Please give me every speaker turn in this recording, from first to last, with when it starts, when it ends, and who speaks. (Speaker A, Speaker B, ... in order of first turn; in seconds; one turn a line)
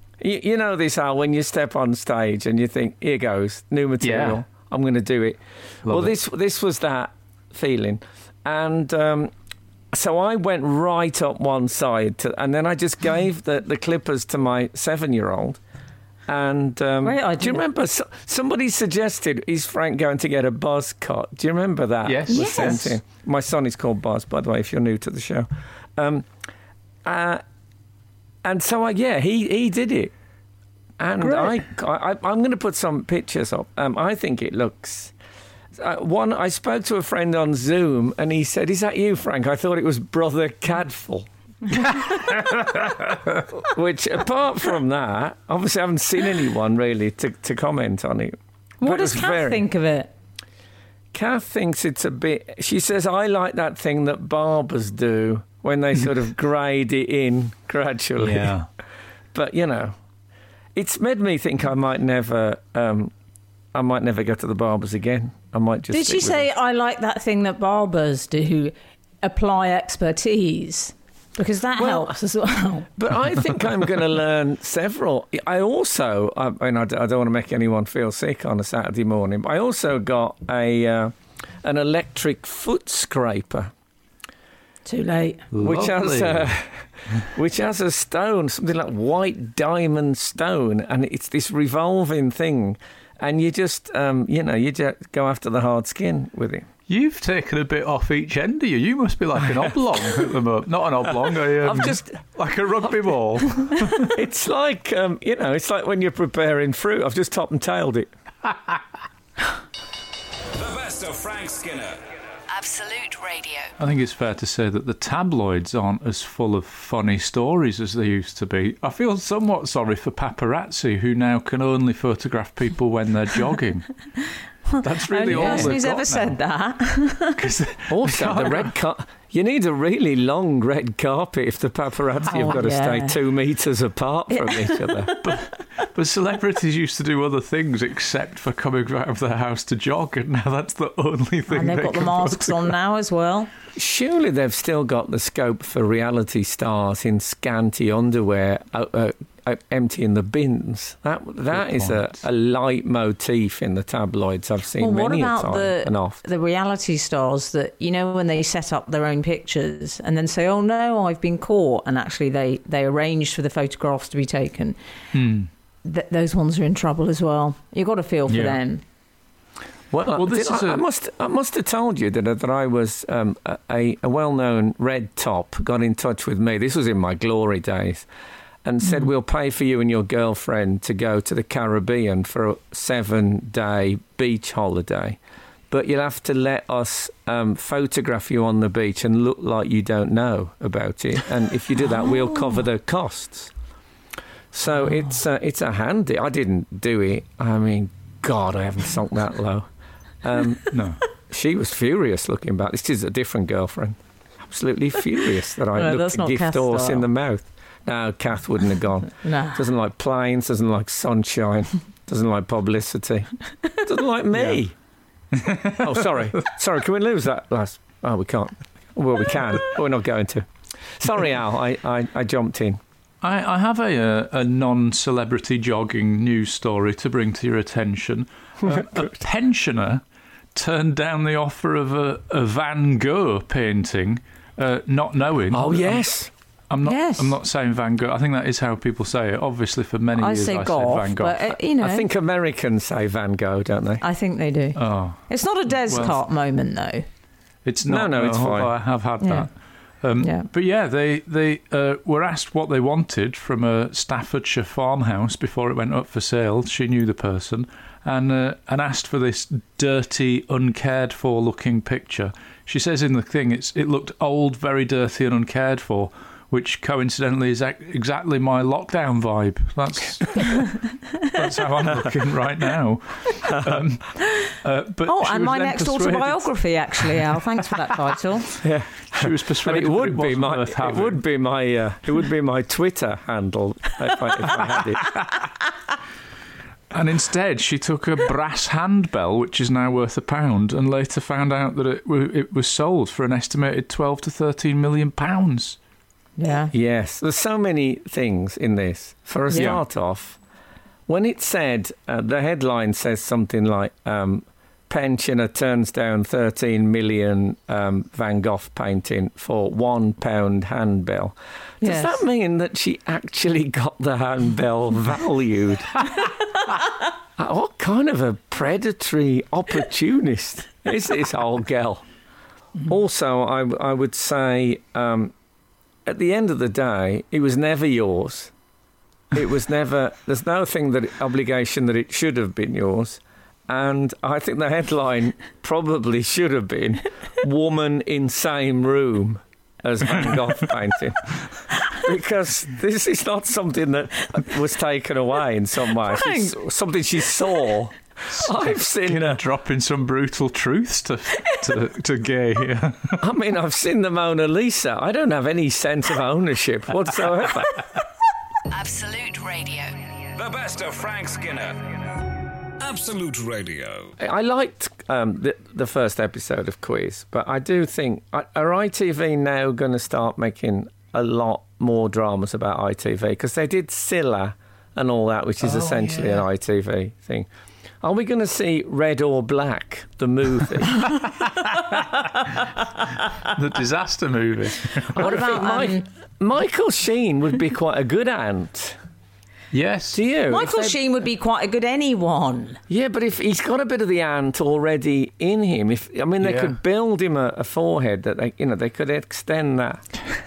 Speaker A: 0.2-9.3
Speaker B: 4.0-4.4
Speaker B: 5.8-6.1
Speaker A: 9.9-15.6
Speaker A: 16.3-26.3
Speaker C: 17.0-17.6
Speaker B: 22.0-22.9
Speaker C: 22.3-22.8
Speaker A: 27.0-27.4
Speaker A: 28.4-30.1
Speaker A: 31.0-35.1
Speaker B: 31.2-31.5
Speaker A: 35.8-42.9
Speaker A: 43.5-49.6
Speaker C: 48.8-50.1
Speaker A: 51.1-58.6
Speaker B: 58.2-58.7
Speaker A: 59.3-59.9
Speaker A: 60.7-63.1
Speaker A: 63.7-66.5
Speaker C: 65.9-72.9
Speaker A: 71.8-72.1
Speaker A: 73.0-83.7
Speaker C: 84.8-85.5
Speaker B: 85.5-86.5
Speaker A: 85.6-96.7
Speaker B: 96.9-104.1
Speaker A: 101.6-102.2
Speaker A: 104.0-108.1
Speaker B: 108.5-108.8
Speaker D: 110.5-112.1
Speaker E: 112.5-113.7
Speaker B: 113.8-123.9
Speaker C: 124.7-127.4
Speaker B: 124.8-126.3
Speaker A: 125.3-125.8
Speaker B: 127.3-128.7
Speaker A: 127.9-135.1
Speaker C: 132.3-133.2
Speaker C: 134.3-135.4
Speaker B: 135.2-142.7
Speaker C: 141.5-143.5
Speaker A: 143.7-156.2
Speaker B: 151.5-152.1
Speaker C: 154.8-164.8
Speaker B: 165.1-165.5
Speaker C: 165.8-168.8
Speaker B: 168.3-168.6
Speaker A: 169.9-178.1
Speaker B: 170.1-170.8
Speaker A: 178.6-185.2
Speaker A: 185.7-193.5
Speaker A: 194.5-199.7
Speaker A: 200.2-200.7
Speaker B: 200.7-201.0
Speaker A: 201.3-214.7
Speaker C: 205.7-207.1
Speaker C: 209.2-209.6
Speaker B: 215.4-215.9
Speaker A: 215.6-220.5
Speaker A: 221.0-222.8
Speaker B: 223.2-230.0
Speaker B: 230.5-236.1
Speaker A: 235.5-236.3
Speaker B: 236.7-241.5
Speaker C: 236.8-237.3
Speaker C: 240.2-242.1
Speaker A: 241.8-244.0
Speaker C: 244.0-247.0
Speaker B: 244.8-246.2
Speaker B: 247.6-249.5
Speaker A: 247.8-248.7
Speaker C: 249.2-249.5
Speaker B: 250.0-277.2
Speaker C: 250.2-250.5
Speaker A: 273.4-273.8
Speaker C: 275.1-278.5
Speaker A: 278.6-285.1
Speaker B: 279.1-281.2
Speaker B: 286.9-295.8
Speaker C: 296.4-296.7
Speaker A: 296.7-300.4
Speaker B: 299.5-299.8
Speaker A: 301.1-316.1
Speaker C: 311.8-312.2
Speaker A: 317.4-322.0
Speaker A: 322.8-325.3
Speaker A: 326.1-328.5
Speaker A: 329.3-341.3
Speaker A: 341.9-349.4
Speaker C: 346.0-346.6
Speaker B: 348.3-353.2
Speaker A: 353.2-357.9
Speaker E: 358.7-360.1
Speaker D: 360.4-364.1
Speaker A: 364.2-377.5
Speaker B: 375.6-376.4
Speaker A: 378.0-381.1
Speaker B: 381.7-382.1
Speaker B: 383.4-385.3
Speaker C: 385.1-386.0
Speaker A: 385.1-389.0
Speaker B: 389.7-390.2
Speaker A: 390.1-391.0
Speaker C: 390.5-392.8
Speaker A: 392.9-400.1
Speaker B: 396.4-396.7